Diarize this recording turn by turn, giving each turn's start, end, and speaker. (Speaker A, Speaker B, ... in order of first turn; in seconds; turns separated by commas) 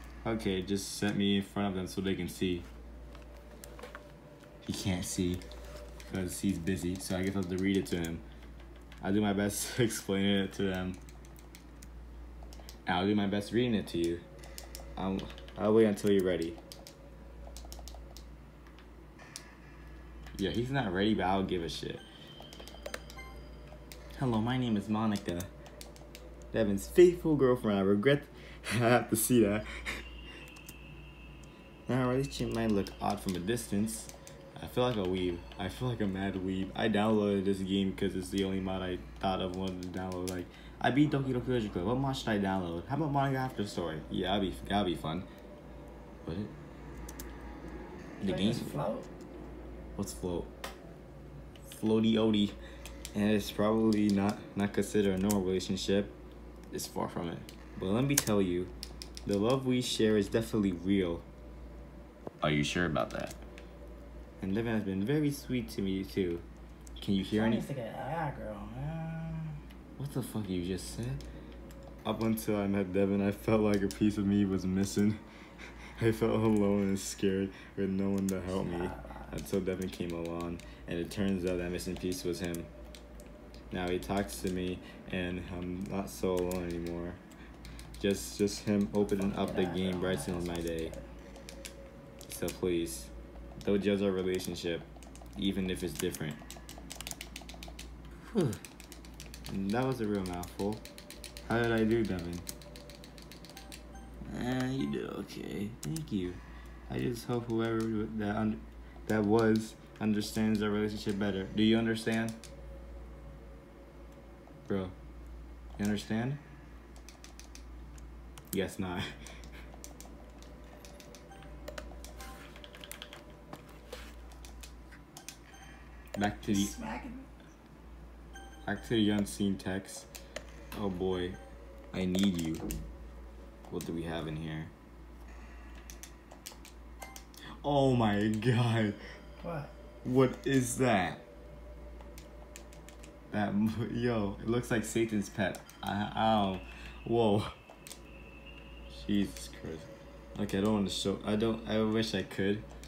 Speaker A: 0.2-2.7, Speaker A: 4.6-5.4, Speaker A: 6.0-8.2, Speaker A: 9.0-11.0, Speaker A: 12.9-14.2, Speaker A: 15.0-16.6, Speaker A: 20.4-22.1, Speaker A: 24.2-25.5, Speaker A: 26.5-29.7, Speaker A: 31.9-45.3, Speaker A: 46.2-46.5, Speaker A: 48.2-48.8, Speaker B: 48.2-49.1, Speaker A: 50.0-50.5, Speaker A: 51.6-52.6, Speaker A: 53.1-56.2, Speaker A: 56.7-58.7, Speaker A: 59.2-61.3, Speaker A: 62.4-63.4, Speaker A: 64.4-66.5, Speaker A: 67.0-67.7, Speaker B: 67.3-69.6, Speaker A: 70.0-71.2, Speaker A: 72.0-75.2, Speaker A: 76.0-82.7, Speaker B: 78.5-79.3, Speaker A: 83.7-87.2, Speaker A: 88.0-90.9, Speaker B: 89.1-91.0, Speaker A: 92.3-96.4, Speaker A: 98.3-98.6, Speaker A: 99.5-100.8, Speaker A: 101.5-102.5, Speaker A: 104.3-112.4, Speaker A: 114.7-115.0, Speaker A: 115.8-116.4, Speaker A: 118.5-119.1, Speaker A: 126.2-126.7, Speaker B: 126.5-127.3, Speaker A: 128.7-130.1, Speaker A: 130.7-131.4, Speaker A: 131.9-132.7, Speaker A: 133.7-134.7, Speaker A: 137.6-139.0, Speaker B: 139.4-139.7, Speaker A: 140.0-141.2, Speaker A: 143.3-147.6, Speaker A: 148.9-152.7